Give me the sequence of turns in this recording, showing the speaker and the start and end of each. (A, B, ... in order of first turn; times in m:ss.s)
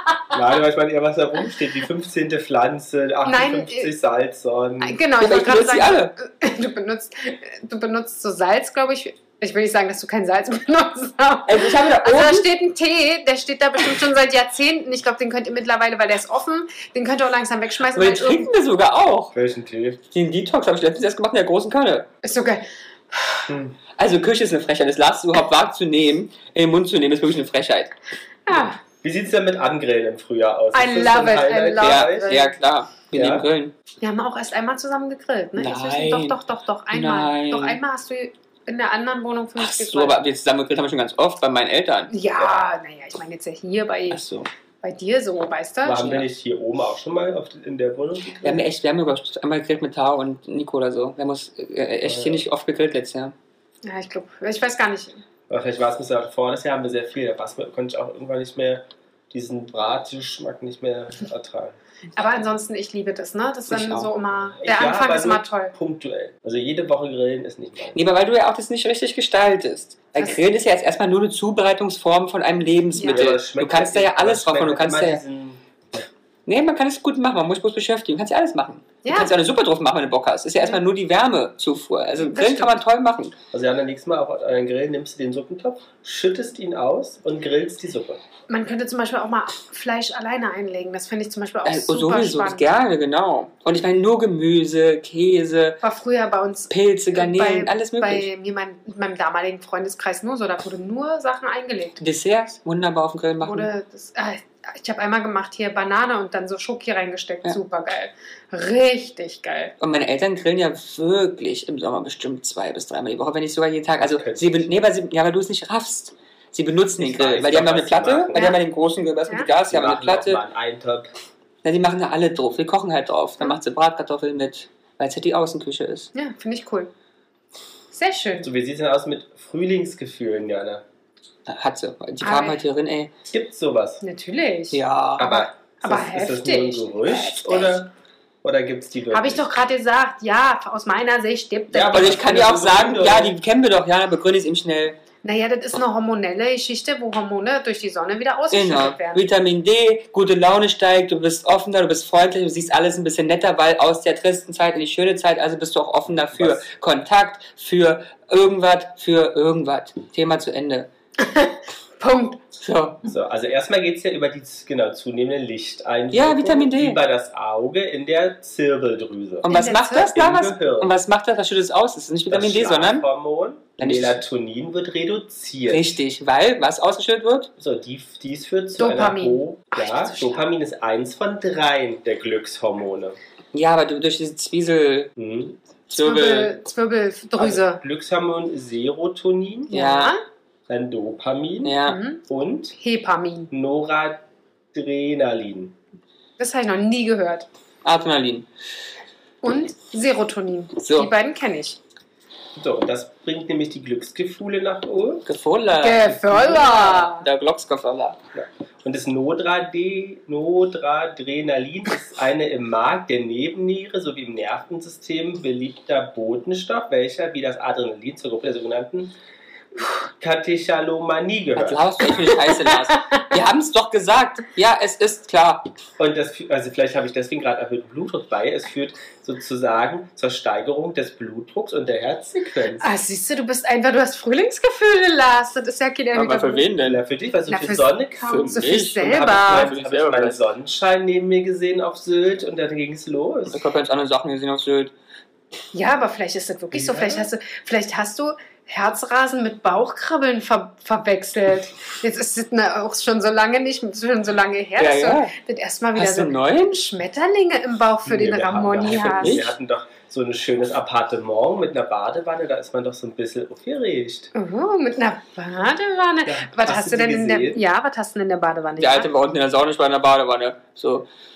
0:00.3-0:05.0 A
0:03.2-0:03.9 B
0:04.8-0:18.5 B
0:05.2-0:06.1 C
0:11.5-0:12.5 C
0:17.9-0:19.3 C
0:19.3-0:20.0 A
0:20.1-0:22.1 C
0:22.2-0:23.5 B
0:23.5-0:23.8 A
0:24.0-0:27.9 C
0:28.4-0:28.8 B
0:29.0-0:32.4 A
0:30.7-0:32.5 B
0:31.8-0:33.7 C
0:33.1-0:33.4 A
0:34.0-0:40.2 B
0:35.6-0:36.4 C
0:36.9-0:37.8 C
0:39.6-0:42.1 C
0:42.1-0:44.2 B
0:44.1-0:44.5 C
0:44.8-0:46.2 B
0:45.8-0:48.5 A
0:48.4-0:53.3 C
0:52.0-0:52.4 A
0:53.8-0:55.2 B
0:55.5-1:01.8 A
1:02.2-1:05.7 B
1:04.0-1:08.0 A
1:07.9-1:15.2 C
1:12.9-1:13.2 B
1:13.0-1:16.0 A
1:16.4-1:23.3 C
1:19.0-1:19.3 B
1:22.2-1:22.8 B
1:23.5-1:28.2 A
1:28.5-1:32.6 B
1:31.6-1:35.8 C
1:35.8-1:42.0 B
1:36.7-1:38.3 C
1:42.0-1:43.7 C
1:43.4-1:49.7 B
1:49.8-2:00.4 C
1:54.0-1:54.7 A
1:57.0-1:58.5 A
1:58.3-1:58.6 B
1:59.7-2:01.1 A
2:01.6-2:06.1 C
2:06.1-2:06.9 B
2:07.9-2:08.5 B
2:08.4-2:10.8 A
2:11.4-2:13.1 C
2:12.2-2:12.6 B
2:13.3-2:14.0 A
2:14.0-2:17.8 B
2:14.7-2:15.3 C
2:15.2-2:17.9 A
2:18.4-2:19.4 A
2:19.1-2:22.2 B
2:21.7-2:23.3 A
2:21.8-2:25.0 C
2:25.2-2:29.2 B
2:28.5-2:40.9 C
2:36.3-2:36.6 A
2:41.2-2:42.4 B
2:42.6-2:43.0 C
2:43.1-2:50.9 A
2:46.1-2:47.0 C
2:49.4-2:53.0 C
2:49.5-2:50.1 B
2:52.3-2:55.9 A
2:53.8-2:54.2 C
2:55.7-2:57.5 C
2:57.6-3:03.2 A
2:58.8-3:00.4 B
3:03.5-3:05.1 C
3:05.2-3:05.6 A
3:05.9-3:06.6 C
3:06.0-3:07.8 B
3:07.4-3:09.7 A
3:09.7-3:10.2 B
3:09.7-3:10.1 C
3:10.7-3:12.7 A
3:11.6-3:12.0 C
3:11.8-3:12.2 B
3:12.7-3:13.5 B
3:13.5-3:14.2 A
3:14.7-3:15.7 A
3:16.4-3:17.5 B
3:17.8-3:18.5 C
3:19.4-3:21.8 B
3:20.8-3:21.1 C
3:22.6-3:25.2 A
3:25.2-3:28.2 C
3:25.8-3:27.2 B
3:26.3-3:26.9 A
3:28.3-3:39.1 A
3:40.2-3:41.8 A
3:41.6-3:45.7 C
3:42.3-3:43.2 B
3:46.0-3:52.9 A
3:52.8-3:56.7 B
3:56.1-3:57.0 C
3:56.8-4:03.6 A
3:57.5-3:59.7 B
3:58.3-4:00.4 C
4:03.5-4:04.9 C
4:05.7-4:19.4 B
4:06.7-4:07.3 A
4:14.8-4:15.3 C
4:16.0-4:16.8 C
4:18.0-4:24.3 A
4:19.0-4:19.5 C
4:24.3-4:29.1 B
4:26.3-4:27.6 A
4:28.8-4:31.1 C